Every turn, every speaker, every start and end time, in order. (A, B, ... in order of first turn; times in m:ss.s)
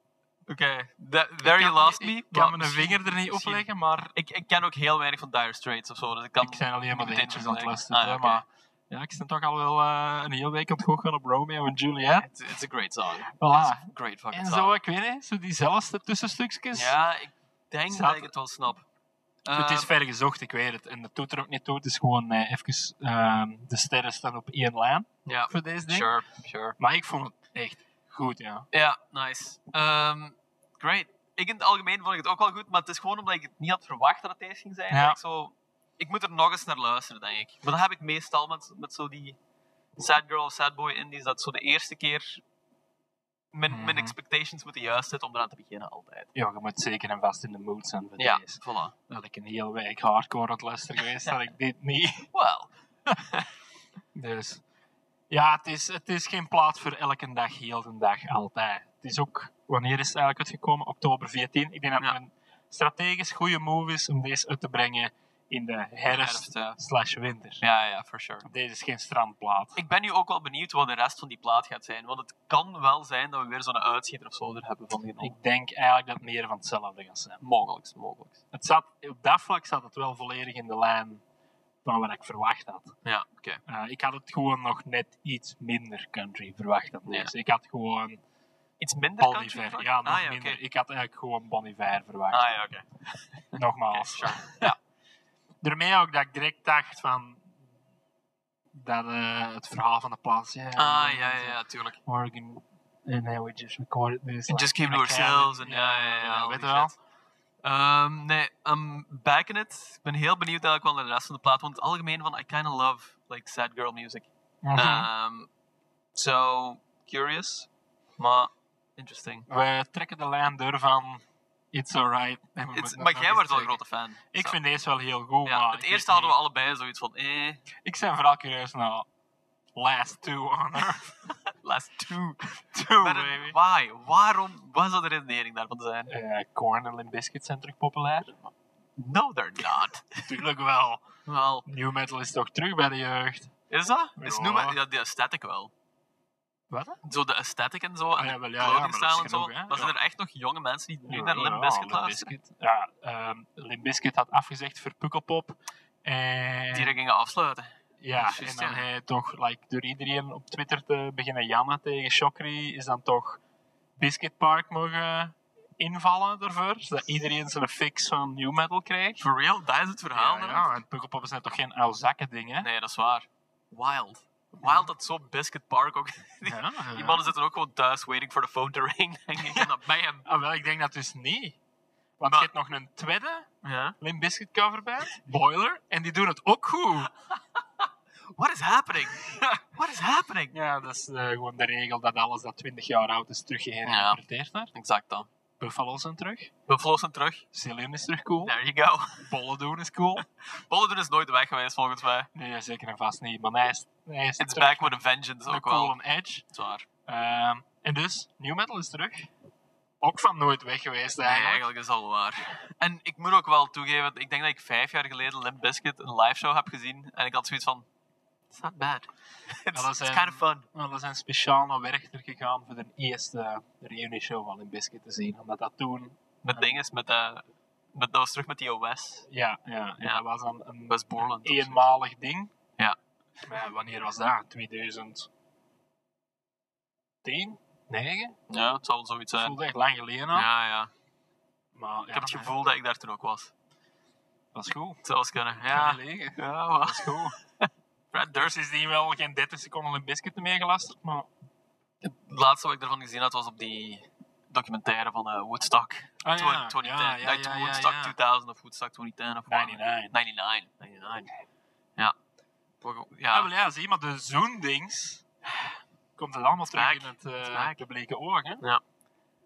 0:00.5-0:08.4 A
0:01.4-0:04.1 B
0:06.4-0:12.3 B
0:12.2-0:14.7 A
0:13.4-0:16.9 B
0:16.7-0:18.8 A
0:17.9-0:18.3 B
0:19.4-0:19.9 A
0:19.5-0:26.1 B
0:25.2-0:26.8 A
0:26.8-0:28.6 B
0:28.7-0:39.4 A
0:34.9-0:35.2 B
0:40.0-0:42.4 A
0:43.5-0:46.3 A
0:43.7-0:44.1 B
0:46.3-0:52.3 B
0:48.2-0:48.9 A
0:52.3-0:53.5 A
0:54.1-0:54.6 B
0:55.3-1:07.6 B
1:06.1-1:06.8 A
1:07.6-1:08.4 A
1:08.4-1:09.8 B
1:09.8-1:15.3 A
1:15.2-1:17.4 B
1:17.4-1:18.4 A
1:18.5-1:21.2 B
1:21.8-1:22.9 B
1:23.0-1:23.6 A
1:23.7-1:28.2 B
1:28.8-1:30.6 A
1:29.2-1:32.5 B
1:32.3-1:34.7 A
1:33.5-1:34.8 B
1:35.6-1:37.4 B
1:38.7-1:46.9 B
1:40.8-1:42.0 A
1:44.5-1:46.9 A
1:47.6-1:55.5 A
1:54.6-1:55.1 B
1:56.1-1:59.4 A
1:59.5-2:01.2 B
2:01.7-2:03.8 B
2:02.7-2:04.6 A
2:04.3-2:06.3 B
2:05.4-2:07.6 A
2:07.8-2:09.1 B
2:09.7-2:11.2 B
2:11.6-2:16.1 A
2:12.7-2:13.6 B
2:16.1-2:18.4 B
2:19.0-2:20.3 A
2:20.2-2:21.0 B
2:21.3-2:21.6 A
2:21.6-2:23.5 B
2:23.7-2:25.7 A
2:24.2-2:24.8 B
2:26.7-2:27.0 B
2:27.0-2:32.3 A
2:28.2-2:29.9 B
2:31.1-2:36.9 B
2:36.7-2:38.8 A
2:38.0-2:43.4 B
2:44.0-2:49.2 B
2:49.2-2:50.7 A
2:50.1-2:52.7 B
2:52.6-3:00.2 A
2:54.6-2:54.9 B
2:56.4-2:57.3 B
2:59.4-2:59.7 B
3:00.2-3:01.6 B
3:02.2-3:03.5 B
3:03.6-3:03.9 A
3:04.0-3:07.1 B
3:08.3-3:10.5 A
3:09.3-3:09.6 B
3:10.5-3:14.7 B
3:13.8-3:14.2 A
3:14.7-3:15.3 A
3:15.6-3:16.5 B
3:16.7-3:17.4 A
3:17.5-3:18.5 B
3:18.4-3:19.3 A
3:19.2-3:20.2 B
3:20.5-3:22.3 A
3:22.3-3:26.4 B
3:24.4-3:25.9 A
3:26.5-3:26.8 A
3:27.1-3:29.3 B
3:30.0-3:31.6 B
3:31.2-3:37.8 A
3:38.5-3:40.6 A
3:39.7-3:46.8 B
3:46.4-3:47.4 A
3:47.9-3:49.2 A
3:49.3-3:52.5 B
3:50.9-3:51.8 A
3:53.4-3:55.3 B
3:57.2-3:58.4 B
3:58.5-3:59.6 A
3:59.4-4:00.5 B
4:00.3-4:00.9 A
4:01.7-4:02.5 B
4:02.1-4:03.5 A
4:04.5-4:05.0 B
4:05.0-4:08.5 A
4:05.6-4:07.4 B
4:08.3-4:11.3 B
4:12.0-4:21.3 A
4:16.2-4:18.1 B
4:19.5-4:20.1 B
4:22.8-4:23.5 A
4:23.3-4:25.2 B
4:26.2-4:28.6 B
4:26.7-4:27.8 A